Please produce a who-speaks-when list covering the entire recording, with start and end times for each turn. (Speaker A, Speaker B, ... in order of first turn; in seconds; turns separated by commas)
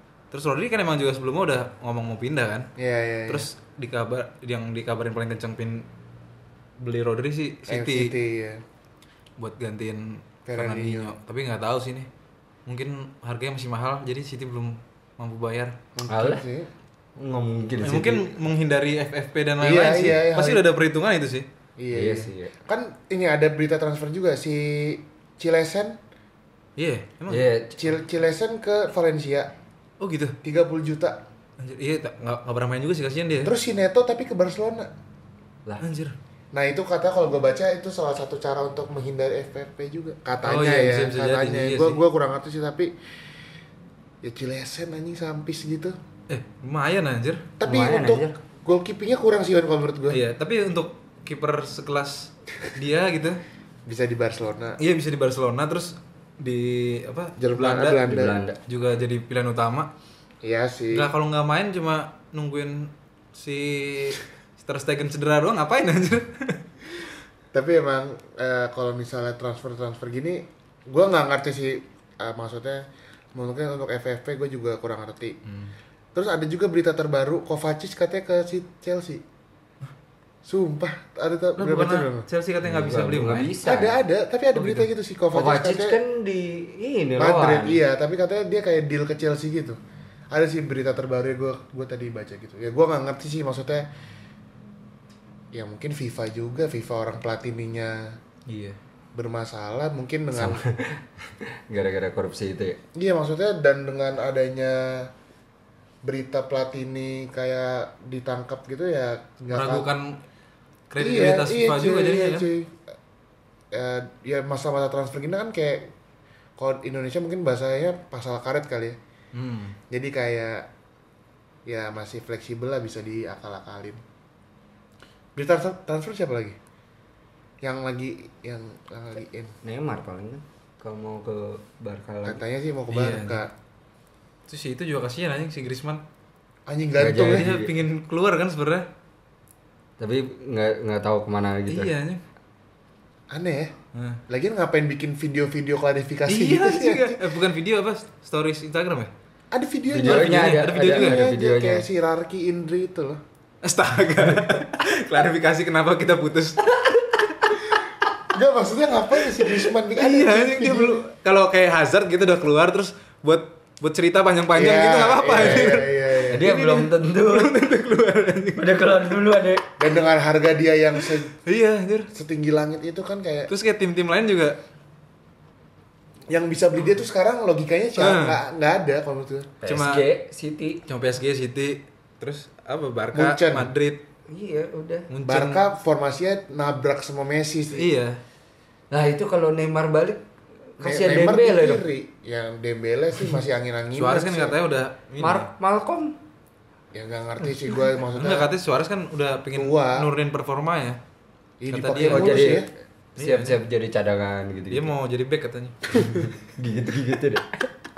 Speaker A: 0.3-2.7, Speaker B: 2.8-3.5, Speaker A: 3.3-5.9, Speaker A: 6.8-8.2, Speaker B: 7.7-8.6, Speaker A: 9.4-12.1, Speaker B: 10.5-11.1, Speaker A: 12.7-15.8, Speaker B: 16.0-16.7, Speaker C: 16.1-16.4, Speaker C: 17.2-18.3, Speaker A: 17.8-21.5, Speaker B: 19.6-20.6, Speaker B: 21.8-26.0, Speaker C: 21.9-22.5, Speaker A: 26.8-27.5, Speaker C: 27.3-27.8, Speaker B: 27.8-29.5, Speaker A: 30.0-30.4, Speaker B: 30.4-31.2, Speaker A: 31.6-33.5, Speaker B: 33.4-34.9, Speaker A: 35.8-36.2, Speaker B: 36.5-42.9, Speaker A: 40.4-42.0, Speaker B: 44.2-46.0, Speaker A: 46.3-47.5, Speaker B: 47.6-50.2, Speaker C: 47.6-48.4, Speaker A: 50.1-53.4, Speaker B: 53.9-54.8, Speaker A: 54.8-58.0, Speaker B: 57.4-58.4, Speaker C: 58.0-58.6, Speaker A: 58.7-59.9, Speaker B: 60.4-61.1, Speaker A: 60.9-66.6, Speaker B: 67.5-75.4, Speaker A: 75.5-75.7, Speaker B: 76.2-79.2, Speaker B: 80.5-82.3, Speaker A: 81.6-83.5, Speaker C: 82.6-84.0, Speaker B: 83.6-86.0, Speaker A: 84.5-84.9, Speaker C: 85.3-87.8, Speaker B: 87.2-89.8, Speaker B: 90.3-93.9, Speaker B: 95.5-98.2, Speaker A: 98.5-98.8, Speaker B: 99.2-100.6, Speaker C: 100.3-102.8, Speaker B: 103.0-105.1, Speaker B: 106.0-109.9, Speaker A: 109.5-110.2, Speaker A: 110.9-112.5, Speaker B: 111.0-112.8, Speaker B: 113.7-115.9, Speaker B: 116.6-119.0, Speaker A: 119.3-119.8, Speaker B: 119.9-120.7, Speaker B: 121.7-124.0, Speaker B: 125.4-126.6, Speaker B: 127.6-129.5, Speaker C: 129.6-132.4, Speaker B: 132.2-133.5, Speaker A: 132.9-133.4, Speaker A: 134.5-136.0, Speaker B: 136.7-137.5, Speaker C: 137.0-137.7, Speaker A: 137.2-138.9, Speaker C: 140.0-141.9, Speaker A: 141.7-142.2, Speaker B: 143.3-143.7, Speaker A: 143.9-144.2, Speaker B: 144.3-147.2, Speaker A: 146.3-149.1, Speaker B: 149.5-153.2, Speaker C: 149.9-151.9, Speaker A: 150.0-151.2, Speaker A: 153.6-157.1, Speaker B: 158.3-161.1, Speaker A: 159.9-169.1, Speaker B: 164.5-166.5, Speaker C: 166.3-167.5, Speaker C: 168.6-169.7, Speaker B: 169.8-171.3, Speaker A: 171.4-172.1, Speaker B: 172.1-173.5, Speaker A: 173.5-174.6, Speaker B: 176.3-179.6, Speaker A: 178.0-178.4, Speaker C: 179.6-180.8, Speaker A: 179.7-180.1, Speaker A: 180.9-184.0, Speaker B: 183.1-183.7, Speaker C: 184.3-185.1, Speaker A: 185.1-185.6, Speaker B: 185.2-187.9, Speaker A: 187.7-188.2, Speaker C: 188.9-190.2, Speaker C: 190.8-191.8, Speaker B: 190.8-194.6, Speaker A: 193.9-195.5, Speaker C: 195.2-196.2, Speaker B: 196.9-198.5, Speaker A: 198.1-201.0, Speaker B: 199.5-200.1, Speaker B: 201.6-202.7, Speaker A: 201.7-202.7, Speaker C: 202.0-204.9, Speaker A: 203.2-203.6, Speaker A: 204.7-205.8, Speaker C: 205.9-207.7